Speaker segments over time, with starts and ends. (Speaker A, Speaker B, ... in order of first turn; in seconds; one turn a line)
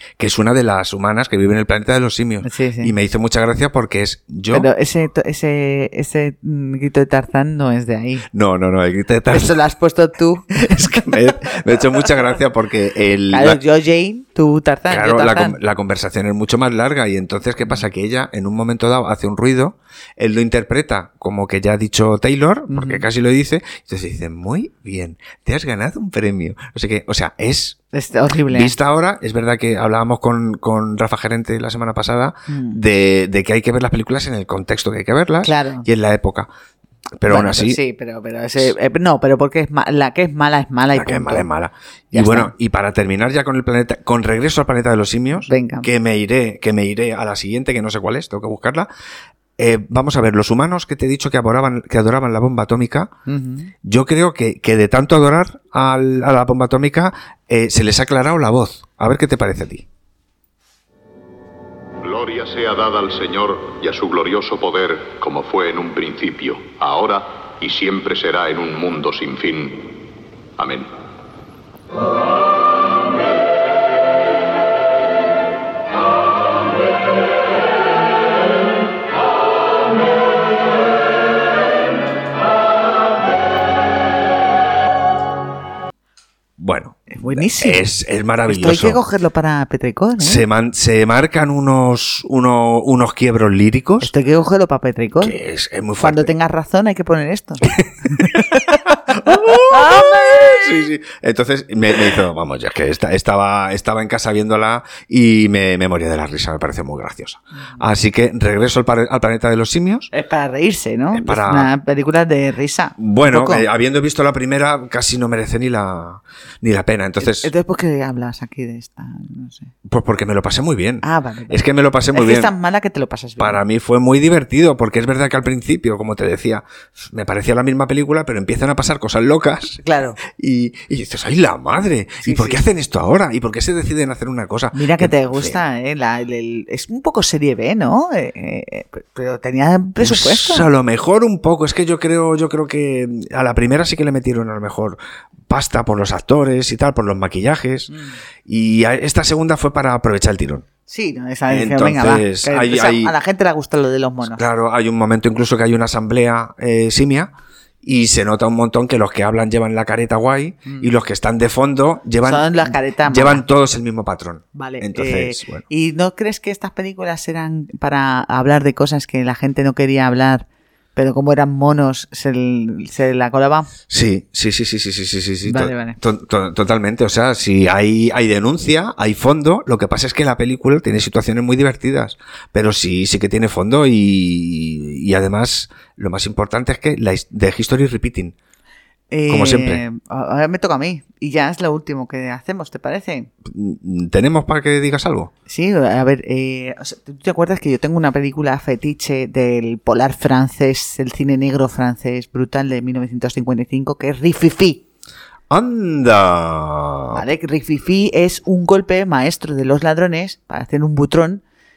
Speaker A: 0.2-4.7
Speaker B: 2.4-2.9
Speaker B: 4.5-8.3
Speaker A: 8.3-9.6
Speaker B: 9.3-11.5
Speaker A: 10.6-13.6
Speaker B: 13.3-15.6
Speaker A: 14.9-27.8
Speaker B: 22.7-23.1
Speaker B: 27.9-28.8
Speaker A: 28.5-36.5
Speaker B: 32.5-32.8
Speaker B: 35.4-35.9
Speaker A: 37.2-37.8
Speaker B: 37.3-41.5
Speaker A: 40.9-48.9
Speaker B: 42.1-42.5
Speaker B: 45.4-45.9
Speaker A: 49.6-53.1
Speaker B: 53.3-53.7
Speaker A: 53.8-59.9
Speaker C: 62.0-69.8
Speaker C: 70.6-70.9
Speaker A: 86.6-89.0
Speaker B: 87.1-87.8
Speaker B: 88.5-90.4
Speaker A: 90.2-94.1
Speaker B: 94.0-95.3
Speaker A: 95.2-96.3
Speaker B: 96.0-100.6
Speaker A: 97.8-110.1
Speaker B: 110.1-113.7
Speaker A: 111.1-111.7
Speaker A: 113.0-117.5
Speaker B: 117.2-119.7
Speaker A: 119.9-122.5
Speaker B: 121.0-123.6
Speaker A: 123.4-135.6
Speaker B: 129.8-130.2
Speaker B: 132.2-132.6
Speaker B: 134.7-140.7
Speaker A: 140.0-145.0
Speaker A: 145.5-147.9
Speaker B: 147.9-148.2
Speaker A: 148.5-150.7
Speaker B: 150.9-154.4
Speaker A: 151.5-153.1
Speaker A: 154.3-157.3
Speaker A: 157.8-165.6
Speaker B: 160.7-160.9
Speaker B: 162.2-163.4
Speaker B: 164.6-173.7
Speaker A: 173.9-188.3
Speaker B: 175.5-176.0
Speaker B: 189.1-193.3
Speaker A: 189.3-189.8
Speaker A: 193.5-195.3
Speaker B: 195.5-204.8
Speaker A: 205.5-207.2
Speaker B: 207.1-211.4